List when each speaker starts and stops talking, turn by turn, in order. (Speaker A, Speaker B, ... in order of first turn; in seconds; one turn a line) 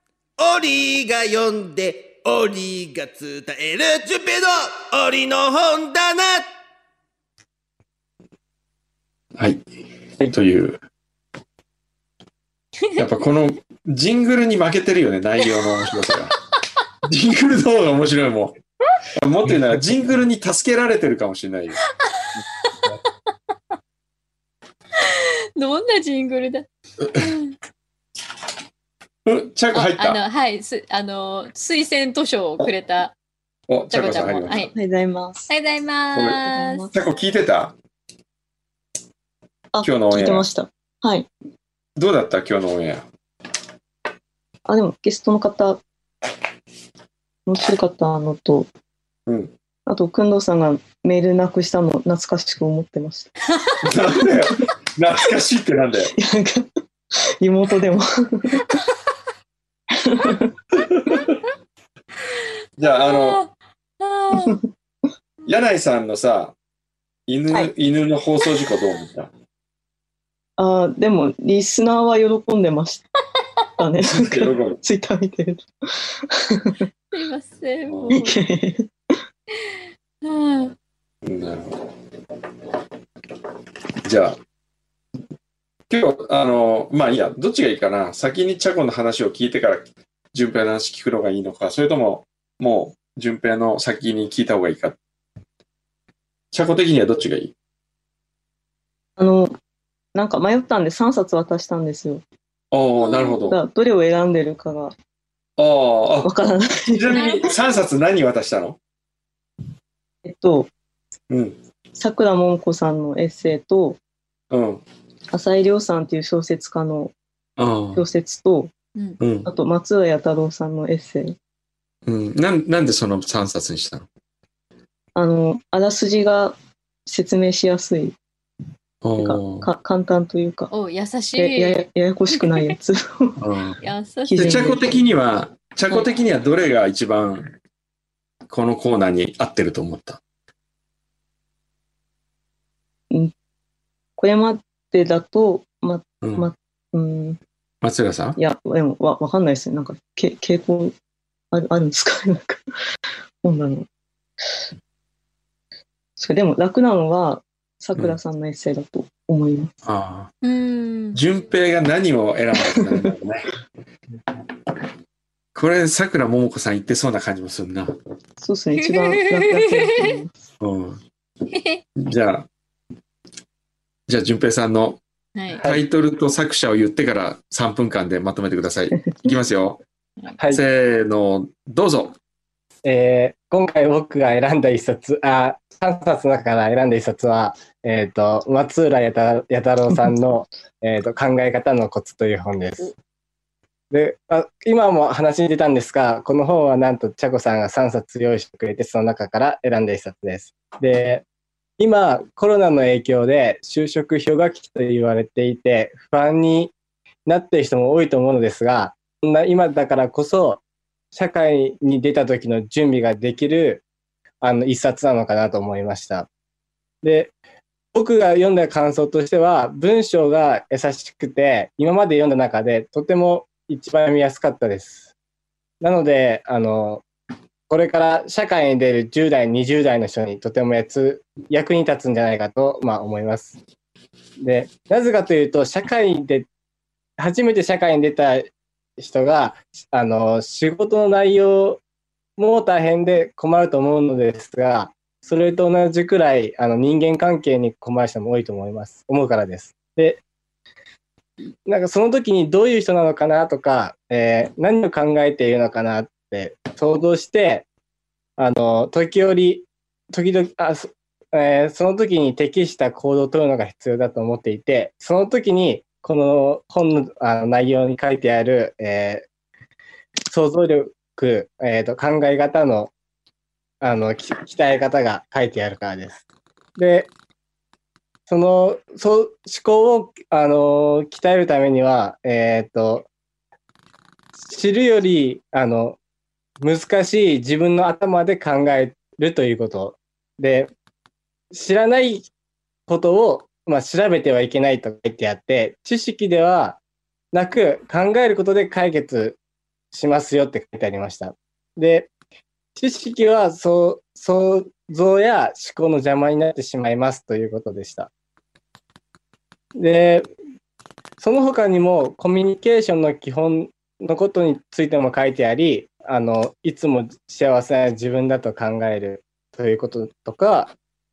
Speaker A: 0.4-6.5
Speaker B: 9.3-9.7
Speaker B: 10.2-10.8
Speaker B: 12.9-16.4
Speaker B: 17.0-18.6
Speaker B: 19.1-21.8
Speaker C: 22.0-22.7
Speaker C: 25.0-27.6
Speaker B: 29.2-30.2
Speaker C: 29.7-33.1
Speaker B: 33.7-34.7
Speaker C: 33.9-34.7
Speaker D: 34.7-35.5
Speaker C: 35.5-36.9
Speaker B: 36.1-37.8
Speaker D: 36.4-36.9
Speaker D: 39.7-41.3
Speaker B: 39.8-40.5
Speaker B: 42.0-43.0
Speaker D: 44.6-45.8
Speaker D: 47.5-48.7
Speaker B: 49.3-49.5
Speaker D: 49.9-53.3
Speaker B: 53.8-56.1
Speaker D: 54.1-54.7
Speaker D: 56.1-58.8
Speaker D: 59.9-60.5
Speaker B: 60.7-61.4
Speaker B: 62.8-63.4
Speaker C: 62.8-64.6
Speaker D: 64.3-64.6
Speaker B: 65.4-66.5
Speaker B: 67.3-69.3
Speaker D: 70.6-73.0
Speaker D: 73.8-76.8
Speaker B: 74.0-74.8
Speaker C: 77.1-78.4
Speaker B: 77.9-78.2
Speaker D: 78.1-78.9
Speaker C: 80.2-80.7
Speaker B: 81.2-81.9
Speaker B: 84.0-84.4
Speaker B: 85.9-95.0
Speaker B: 96.5-97.5
Speaker D: 99.2-99.5
Speaker D: 100.1-102.2
Speaker B: 102.7-103.6
Speaker C: 103.0-103.4
Speaker D: 103.4-104.9
Speaker B: 105.6-106.3
Speaker D: 106.2-107.5
Speaker B: 106.9-108.8
Speaker C: 107.1-107.6
Speaker D: 110.2-110.7
Speaker B: 111.3-111.6
Speaker D: 111.9-114.0
Speaker B: 114.5-114.8
Speaker D: 115.3-117.1
Speaker B: 117.6-118.0
Speaker D: 117.9-118.7
Speaker B: 119.2-119.5
Speaker D: 119.4-121.3
Speaker B: 122.0-124.1
Speaker D: 125.1-128.2
Speaker B: 129.0-129.7
Speaker D: 129.2-130.7
Speaker C: 130.7-132.7
Speaker D: 131.4-133.4
Speaker B: 133.4-133.8
Speaker C: 133.8-134.9
Speaker D: 134.3-135.0
Speaker B: 134.3-137.5
Speaker B: 138.5-140.2
Speaker D: 144.2-147.4
Speaker B: 146.2-146.5
Speaker B: 147.8-148.4
Speaker D: 148.4-150.9
Speaker D: 151.5-152.6
Speaker D: 153.4-153.9
Speaker D: 156.2-159.7
Speaker B: 159.8-160.3
Speaker C: 160.4-161.2
Speaker B: 161.1-163.5
Speaker D: 162.7-163.1
Speaker B: 165.5-167.9
Speaker D: 168.4-170.3
Speaker C: 168.8-170.2
Speaker B: 170.6-171.0
Speaker C: 171.5-171.8
Speaker B: 171.9-172.5
Speaker B: 174.1-175.0
Speaker C: 175.3-175.6
Speaker B: 175.6-179.8
Speaker B: 180.5-182.2
Speaker E: 182.8-192.9
Speaker E: 193.9-201.2
Speaker E: 201.8-206.7
Speaker E: 207.2-210.6
Speaker E: 211.1-213.8
Speaker E: 214.4-216.3
Speaker E: 217.0-217.3
Speaker E: 217.9-225.1
Speaker E: 225.8-227.0
Speaker E: 227.7-233.6
Speaker E: 234.4-236.5
Speaker E: 237.2-241.8
Speaker E: 242.4-250.2
Speaker E: 251.7-257.6
Speaker E: 258.4-269.2
Speaker E: 270.3-272.9
Speaker E: 273.8-276.2
Speaker E: 276.8-277.1
Speaker E: 278.3-283.1
Speaker E: 284.4-286.0
Speaker E: 286.6-290.7
Speaker E: 291.5-292.3
Speaker E: 292.9-296.8
Speaker E: 297.3-299.4
Speaker E: 299.9-302.1
Speaker E: 302.8-308.1
Speaker E: 309.8-310.3
Speaker E: 311.2-320.7